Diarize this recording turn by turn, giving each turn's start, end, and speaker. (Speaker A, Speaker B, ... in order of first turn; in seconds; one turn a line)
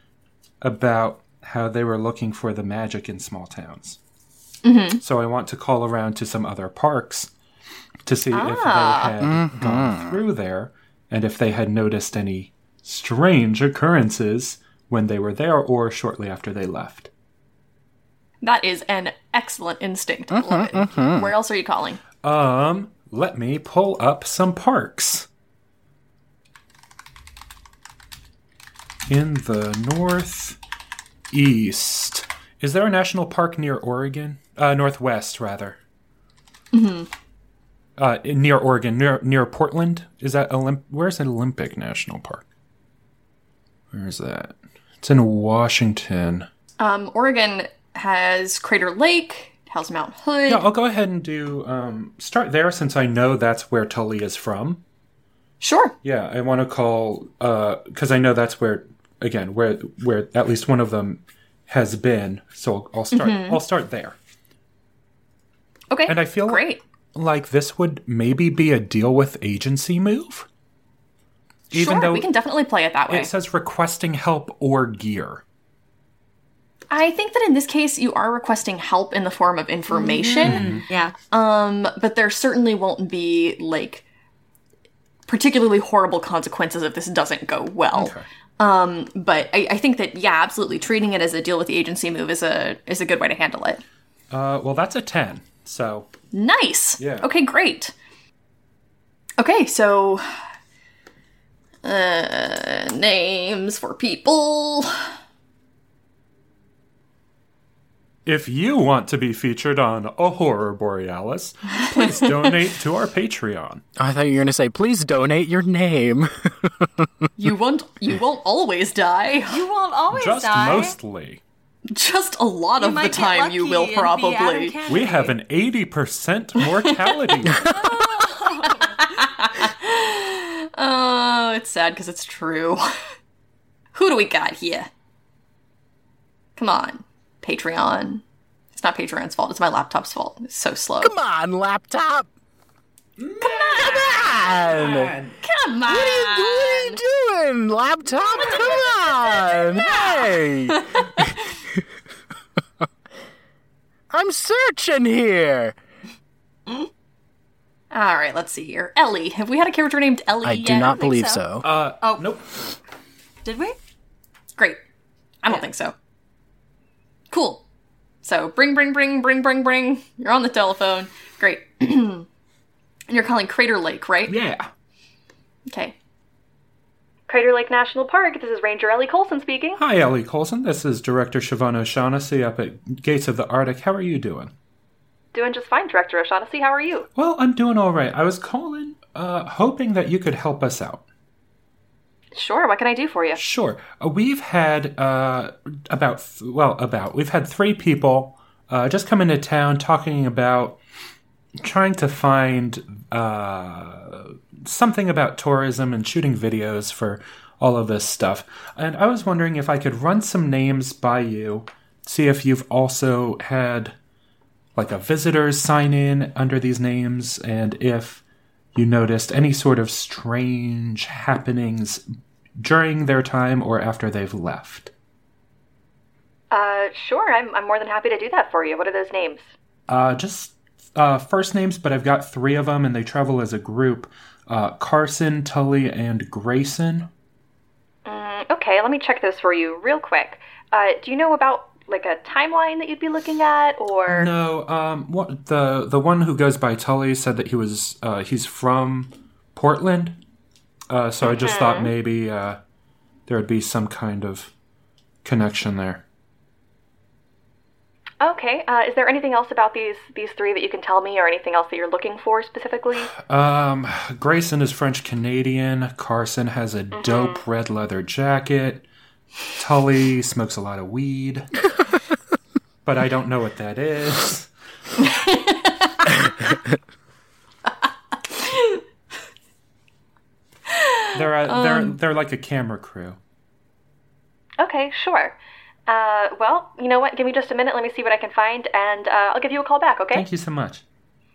Speaker A: 0.6-4.0
Speaker B: 4.6-5.0
Speaker A: 5.0-7.3
Speaker A: 8.1-17.1
Speaker B: 8.3-9.1
Speaker C: 9.2-10.2
Speaker B: 18.4-22.0
Speaker C: 20.3-21.3
Speaker A: 22.2-25.3
Speaker A: 29.1-30.6
Speaker A: 31.3-35.8
Speaker B: 36.7-37.1
Speaker A: 38.0-42.4
Speaker A: 43.9-46.5
Speaker B: 46.8-50.6
Speaker A: 50.5-54.8
Speaker B: 55.6-55.9
Speaker A: 56.0-64.2
Speaker B: 63.1-63.6
Speaker B: 65.9-66.8
Speaker A: 66.0-70.5
Speaker A: 71.7-72.3
Speaker B: 71.7-73.3
Speaker A: 73.1-75.4
Speaker B: 76.9-80.7
Speaker D: 79.9-81.1
Speaker A: 80.4-80.8
Speaker B: 81.3-84.0
Speaker B: 85.3-93.8
Speaker A: 87.9-88.2
Speaker A: 94.3-96.1
Speaker B: 96.3-97.9
Speaker A: 97.0-97.3
Speaker B: 99.4-100.4
Speaker B: 101.8-105.1
Speaker A: 108.2-113.8
Speaker C: 114.0-117.1
Speaker B: 117.4-119.6
Speaker D: 119.5-121.0
Speaker A: 120.1-121.4
Speaker B: 121.9-124.8
Speaker D: 122.8-125.3
Speaker A: 124.9-127.7
Speaker D: 127.7-129.0
Speaker B: 128.7-132.8
Speaker B: 133.9-134.9
Speaker B: 136.6-138.2
Speaker B: 138.7-141.1
Speaker C: 141.0-142.3
Speaker A: 143.2-145.4
Speaker B: 143.4-144.3
Speaker C: 143.7-145.1
Speaker B: 145.4-147.0
Speaker C: 145.9-151.8
Speaker B: 148.1-151.5
Speaker C: 154.1-155.8
Speaker B: 157.9-161.4
Speaker C: 160.4-161.6
Speaker A: 161.6-162.4
Speaker D: 163.4-163.8
Speaker B: 165.4-165.9
Speaker B: 167.3-167.6
Speaker B: 168.2-172.3
Speaker B: 173.1-174.4
Speaker A: 174.3-174.7
Speaker B: 175.7-175.9
Speaker B: 177.3-179.8
Speaker A: 179.8-184.5
Speaker B: 185.3-187.1
Speaker A: 187.2-191.0
Speaker B: 192.3-193.4
Speaker A: 193.4-200.8
Speaker A: 201.6-213.9
Speaker A: 214.8-218.2
Speaker A: 218.7-222.0
Speaker A: 222.6-224.9
Speaker B: 226.5-229.5
Speaker A: 229.9-237.1
Speaker B: 238.1-244.3
Speaker A: 244.1-250.2
Speaker A: 250.9-252.6
Speaker B: 251.3-251.9
Speaker A: 253.3-254.5
Speaker A: 255.2-256.0
Speaker B: 258.2-263.1
Speaker A: 263.2-268.9
Speaker B: 267.0-267.4
Speaker A: 269.5-271.6
Speaker A: 272.8-274.5
Speaker B: 275.0-276.1
Speaker B: 278.3-278.8
Speaker B: 280.7-281.9
Speaker A: 281.1-283.2
Speaker B: 284.6-285.3
Speaker B: 285.9-290.2
Speaker A: 290.1-290.8